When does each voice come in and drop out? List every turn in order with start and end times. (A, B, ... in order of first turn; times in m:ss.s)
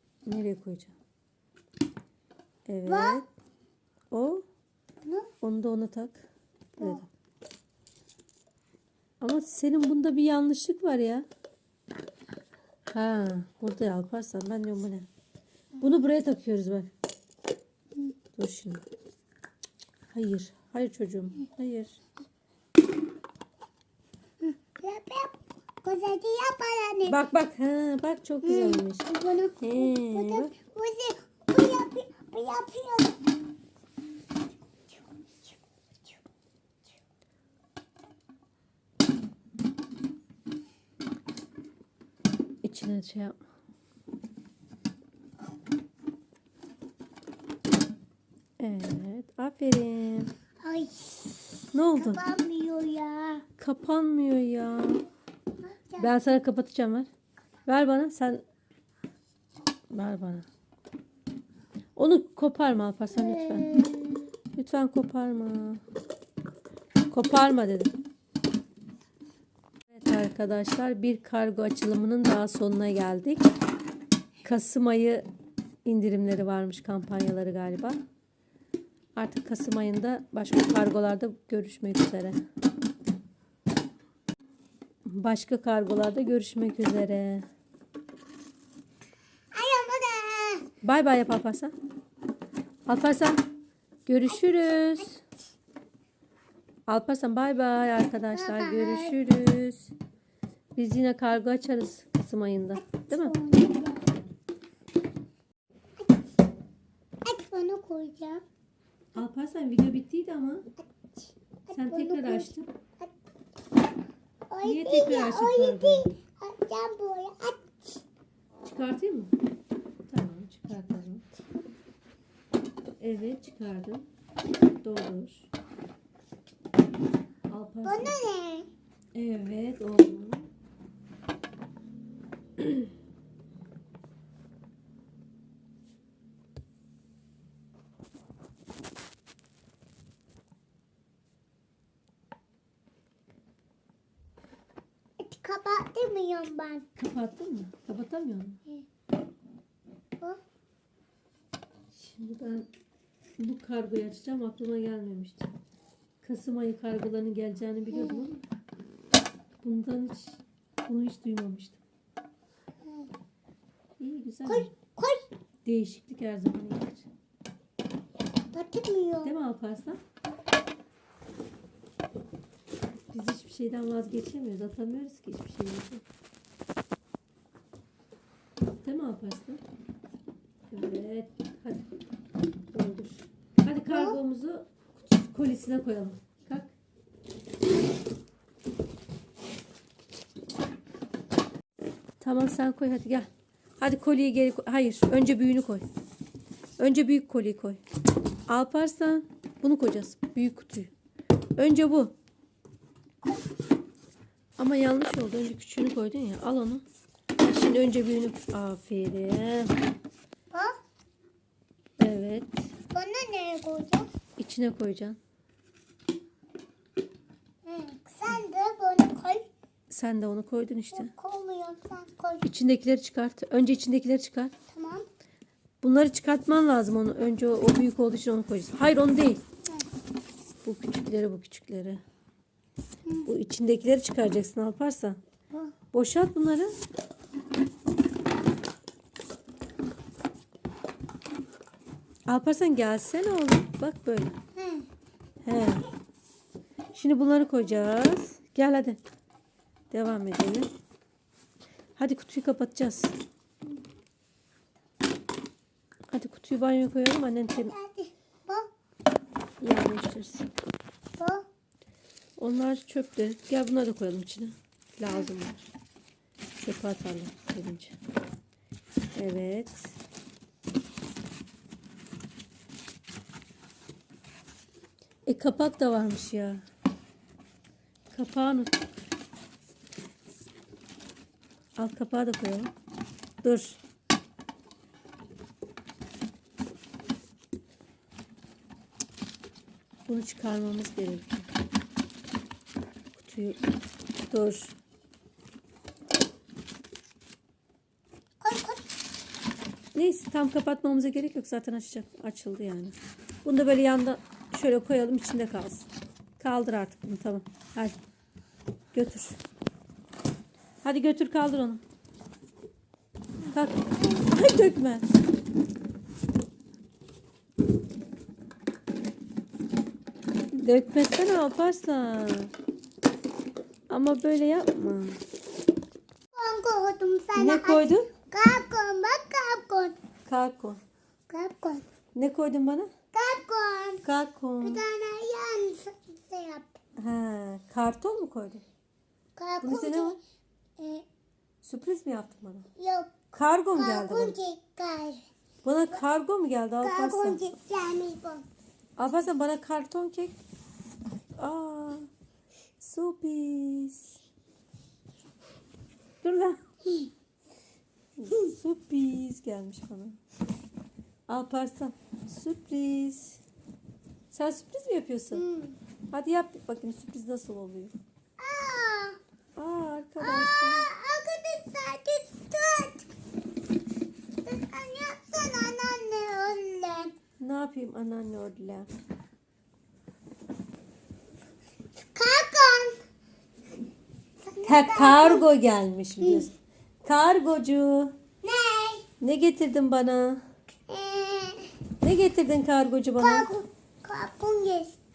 0:00.3-0:01.0 A
0:02.7-0:03.3 A
0:02.8-0:03.2 B
0:04.1-0:04.4 A
0:05.0-0:05.3 B
0:05.4-0:06.3 A
0:06.8-0:07.0 B
0:06.8-0:07.1 A
0:09.2-0:11.3 A
0:12.9-0:15.1 A
0:15.8-0:16.9 A
0:18.4-0:18.8 A
0:20.1-0:22.0 A
0:24.4-0:27.2 B
0:27.1-0:29.1 A
0:28.4-0:33.2 B
0:29.6-0:30.5 A
0:42.6-0:43.4 A
0:48.6-0:50.3 A
0:50.6-0:53.4 B
0:51.7-0:52.2 A
0:53.6-0:55.0 A
0:55.6-0:56.2 B
0:56.0-0:57.1 A
0:57.7-0:58.4 A
0:59.9-1:00.5 A
1:02.0-1:03.9 A
1:03.1-1:04.3 B
1:04.6-1:05.8 A
1:07.1-1:07.9 A
1:09.9-1:13.5 A
1:14.4-1:15.3 A
1:15.8-1:18.0 A
1:19.2-1:22.4 A
1:25.1-1:27.5 A
1:29.5-1:30.7 B
1:30.8-1:31.7 A
1:32.9-1:33.4 A
1:34.1-1:35.2 A
1:36.9-1:39.9 A
1:38.3-1:39.2 B
1:40.8-1:43.3 A
1:42.8-1:44.1 B
1:47.2-1:48.4 B
1:49.2-1:50.6 A
1:50.9-1:53.1 B
1:51.7-1:52.7 A
1:54.5-1:58.0 B
1:54.6-1:56.1 A
1:58.6-1:59.3 A
2:00.1-2:01.2 A
2:03.0-2:04.1 A
2:04.8-2:05.5 A
2:07.5-2:08.2 A
2:07.8-2:08.7 B
2:09.2-2:10.5 A
2:12.6-2:12.8 A
2:25.2-2:26.9 B
2:27.0-2:28.6 A
2:31.9-2:32.7 A
2:33.4-2:35.5 A
2:36.2-2:38.4 A
2:37.9-2:38.2 B
2:39.6-2:41.8 A
2:42.8-2:43.1 B
2:44.0-2:44.7 A
2:44.5-2:45.3 B
2:45.6-2:47.1 A
2:48.5-2:49.3 B
2:49.2-2:50.0 A
2:53.1-2:56.0 A
2:58.8-2:59.6 A
3:00.7-3:01.8 A
3:02.7-3:06.7 A
3:03.9-3:04.2 B
3:12.2-3:13.3 A
3:13.8-3:15.8 A
3:16.8-3:17.8 A
3:18.5-3:20.9 A
3:21.6-3:22.1 A
3:23.2-3:23.5 B
3:24.6-3:26.8 A
3:27.4-3:29.7 A
3:32.0-3:32.7 A
3:32.9-3:34.1 B
3:34.4-3:35.2 A
3:37.6-3:39.5 B
3:39.9-3:41.1 A
3:40.9-3:42.5 B
3:42.4-3:44.5 A
3:44.7-3:45.1 B
3:45.8-3:49.4 A
3:50.6-3:52.0 A
3:53.3-3:55.2 A
3:55.9-3:56.7 A
4:02.3-4:04.4 A
4:04.6-4:04.9 B
4:05.4-4:05.9 A
4:06.9-4:09.0 A
4:09.9-4:10.7 A
4:12.0-4:13.1 A
4:16.1-4:17.7 A
4:17.5-4:18.7 B
4:19.6-4:20.5 A
4:21.2-4:21.4 B
4:22.4-4:25.7 A
4:26.6-4:28.0 A
4:29.2-4:29.9 A
4:35.3-4:36.6 A
4:38.1-4:38.8 A
4:41.8-4:42.7 A
4:43.4-4:43.8 A
4:50.1-4:51.5 A
4:53.2-4:53.6 A
4:54.3-4:54.8 A
4:58.4-4:58.9 B
4:59.9-5:05.9 A
5:06.4-5:08.0 A
5:08.9-5:09.4 A
5:10.8-5:11.8 A
5:13.5-5:15.1 A
5:20.5-5:22.5 A
5:23.9-5:25.2 A
5:26.3-5:30.0 B
5:27.4-5:28.1 A
5:30.3-5:30.8 A
5:31.3-5:31.8 B
5:32.2-5:32.9 A
5:33.1-5:34.0 B
5:34.0-5:34.8 A
5:34.6-5:36.8 B
5:37.0-5:38.6 A
5:39.4-5:40.2 B
5:39.6-5:40.2 A
5:40.8-5:41.1 B
5:41.6-5:42.7 A
5:42.8-5:45.2 B
5:43.3-5:44.4 A
5:45.6-5:47.4 A
5:46.8-5:48.4 B
5:49.0-5:50.4 A
5:51.4-5:52.1 A
5:52.8-5:54.2 A
5:56.2-5:56.6 A
5:58.2-6:00.2 A
6:01.3-6:03.4 A
6:04.3-6:05.4 A
6:05.3-6:05.8 B
6:06.1-6:07.9 A
6:08.4-6:09.2 B
6:09.6-6:10.9 A
6:10.2-6:13.1 B
6:14.4-6:17.1 B
6:17.4-6:18.9 A
6:22.1-6:23.0 B
6:24.4-6:25.5 B
6:24.6-6:26.5 A
6:26.2-6:26.5 B
6:27.0-6:28.1 A
6:28.4-6:29.1 B
6:29.2-6:30.4 A
6:30.9-6:31.7 B
6:32.0-6:33.5 A
6:33.2-6:35.0 B